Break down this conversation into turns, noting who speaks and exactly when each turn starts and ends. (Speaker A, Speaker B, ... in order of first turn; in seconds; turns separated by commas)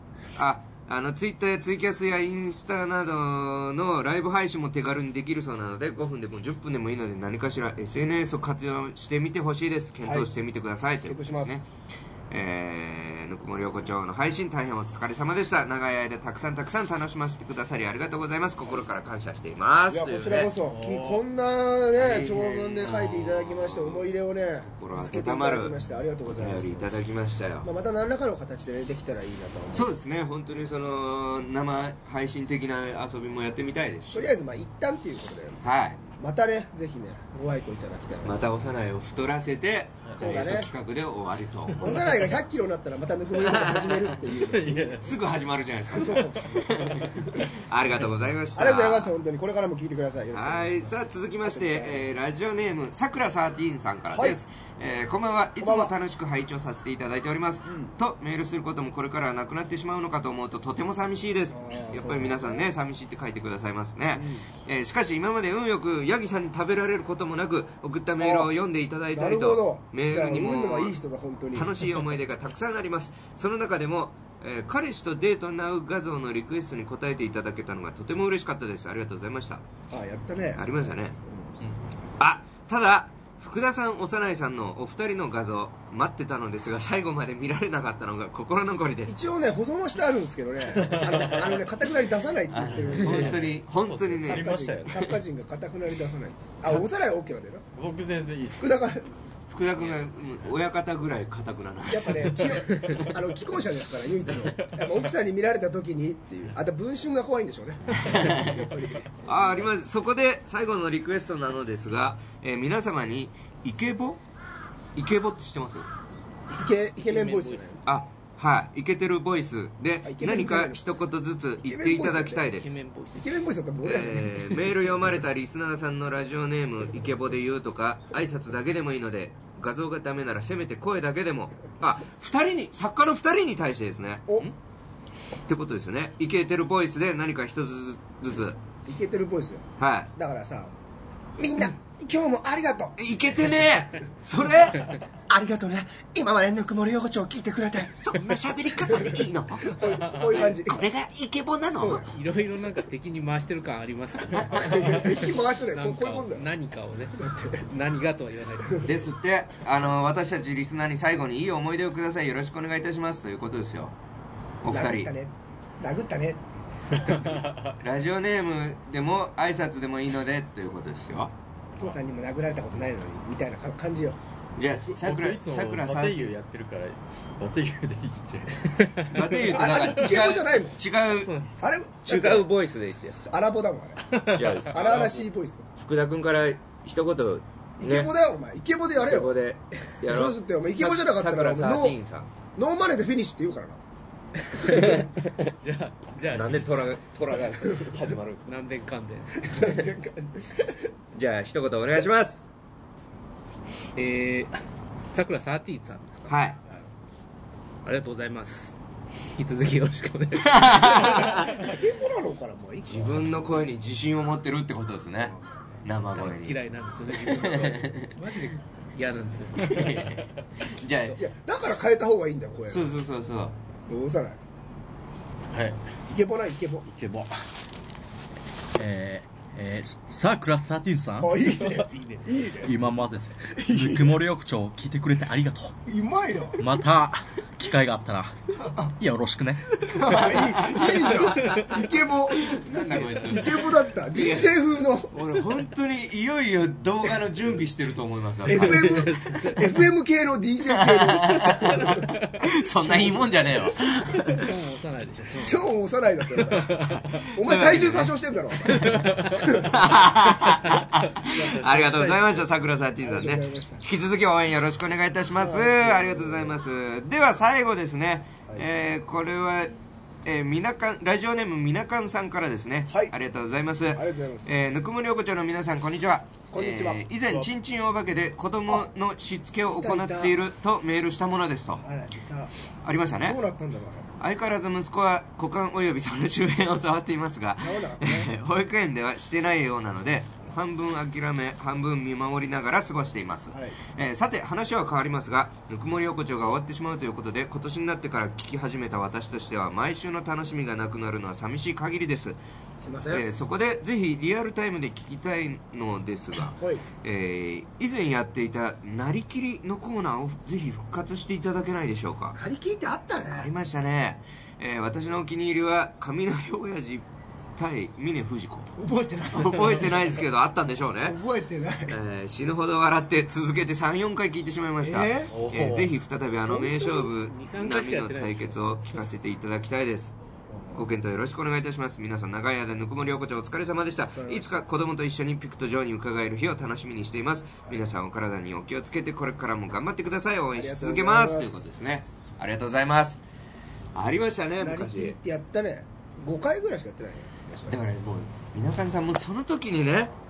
Speaker A: 0.4-11.6, Speaker B: 11.0-11.6, Speaker A: 12.3-20.5, Speaker B: 19.9-26.9, Speaker C: 20.6-21.2, Speaker A: 21.9-24.1, Speaker A: 24.6-25.7, Speaker A: 26.3-27.6, Speaker B: 27.6-29.9, Speaker A: 29.7-34.3, Speaker B: 34.1-38.6, Speaker A: 35.6-36.0, Speaker A: 38.2-42.0, Speaker B: 40.1-40.7, Speaker B: 41.8-45.1, Speaker A: 43.4-44.2, Speaker C: 44.3-45.1, Speaker A: 45.0-49.1, Speaker B: 45.9-47.5, Speaker B: 48.5-52.1, Speaker A: 50.3-71.0, Speaker B: 54.1-54.4, Speaker B: 55.6-55.9, Speaker B: 61.5-62.7, Speaker B: 64.1-64.4, Speaker B: 68.2-68.5, Speaker B: 69.1-72.1, Speaker A: 71.5-79.6, Speaker B: 79.9-80.7, Speaker A: 80.5-81.2, Speaker B: 81.2-81.5, Speaker A: 82.2-89.2, Speaker B: 89.1-93.6, Speaker C: 90.8-91.5, Speaker A: 92.5-95.1, Speaker C: 92.8-95.2, Speaker B: 94.2-97.6, Speaker C: 97.8-98.8, Speaker B: 98.6-99.1, Speaker A: 99.5-103.1, Speaker B: 101.9-109.6, Speaker A: 108.0-108.5, Speaker A: 109.2-114.2, Speaker A: 114.9-115.9, Speaker B: 116.5-117.8, Speaker D: 117.0-117.7, Speaker A: 117.8-122.8, Speaker B: 120.0-120.8, Speaker B: 121.6-122.5, Speaker D: 122.5-123.3, Speaker B: 123.1-124.7, Speaker A: 123.8-134.3, Speaker A: 135.5-138.6, Speaker B: 138.8-140.7, Speaker A: 139.8-140.1, Speaker B: 141.4-143.0, Speaker A: 143.0-144.9, Speaker B: 145.3-150.8, Speaker A: 148.0-152.1, Speaker B: 151.8-152.1, Speaker D: 152.1-158.9, Speaker B: 154.3-156.4, Speaker B: 157.2-157.6, Speaker A: 158.8-163.9, Speaker A: 164.6-165.1, Speaker B: 164.7-167.4, Speaker C: 167.0-167.7, Speaker A: 167.8-171.3, Speaker B: 171.8-174.2, Speaker A: 174.6-176.3, Speaker C: 174.9-179.4, Speaker A: 179.1-181.4, Speaker B: 179.5-180.8, Speaker C: 181.2-181.5, Speaker B: 181.6-182.5, Speaker A: 182.0-183.3, Speaker B: 183.2-184.1, Speaker A: 184.3-185.2, Speaker C: 184.5-185.1, Speaker B: 184.7-185.7, Speaker A: 185.8-188.1, Speaker B: 187.8-189.3, Speaker A: 188.9-192.3, Speaker B: 190.0-192.0, Speaker B: 192.6-193.8, Speaker A: 194.6-195.1, Speaker D: 194.6-196.7, Speaker A: 196.3-198.5, Speaker D: 198.5-199.5, Speaker B: 199.4-200.9, Speaker A: 201.1-202.4, Speaker D: 203.9-204.6, Speaker D: 205.1-206.3, Speaker A: 206.3-206.6, Speaker D: 207.8-208.8, Speaker D: 209.3-211.5, Speaker A: 210.4-211.6, Speaker B: 211.4-213.7, Speaker A: 212.8-216.6, Speaker B: 215.3-215.6, Speaker D: 216.1-220.2, Speaker A: 217.2-218.2, Speaker A: 219.6-221.2, Speaker B: 221.2-222.9, Speaker A: 222.7-223.5, Speaker B: 223.9-224.4, Speaker C: 225.5-225.8, Speaker B: 226.1-226.9, Speaker C: 226.9-227.4, Speaker C: 228.7-231.4, Speaker B: 231.2-232.8, Speaker D: 231.7-232.3, Speaker C: 232.6-235.7, Speaker B: 233.5-234.2, Speaker B: 235.8-236.6, Speaker C: 236.6-241.0, Speaker B: 238.6-238.9, Speaker B: 239.8-245.1, Speaker A: 242.3-244.5, Speaker A: 245.1-248.9, Speaker B: 248.4-252.5, Speaker C: 248.5-249.8, Speaker A: 250.7-254.4, Speaker D: 254.2-255.6, Speaker B: 255.3-259.8, Speaker C: 256.8-257.1, Speaker A: 257.4-258.1, Speaker D: 258.8-259.2, Speaker A: 259.5-281.8, Speaker C: 261.1-262.5, Speaker B: 263.0-263.8, Speaker B: 265.4-266.5, Speaker B: 272.9-273.1, Speaker B: 273.9-274.5, Speaker B: 276.5-277.0, Speaker B: 279.7-280.4, Speaker B: 281.8-282.5, Speaker A: 282.8-283.4, Speaker B: 283.2-284.1, Speaker A: 284.2-302.4, Speaker B: 287.6-288.3, Speaker B: 293.5-293.8, Speaker B: 302.8-303.2, Speaker A: 303.1-312.4, Speaker B: 306.6-306.8, Speaker B: 312.3-313.5, Speaker A: 313.3-317.0, Speaker A: 317.6-318.7, Speaker B: 318.8-320.2, Speaker A: 319.3-321.2, Speaker B: 321.0-321.9, Speaker A: 321.9-330.1, Speaker B: 324.8-325.4, Speaker C: 325.3-325.9, Speaker B: 326.5-326.9, Speaker D: 326.8-329.0, Speaker B: 330.5-330.8, Speaker A: 330.7-343.2, Speaker B: 334.1-334.6, Speaker B: 340.5-341.6, Speaker A: 343.9-345.2, Speaker B: 344.6-347.9, Speaker A: 347.7-350.1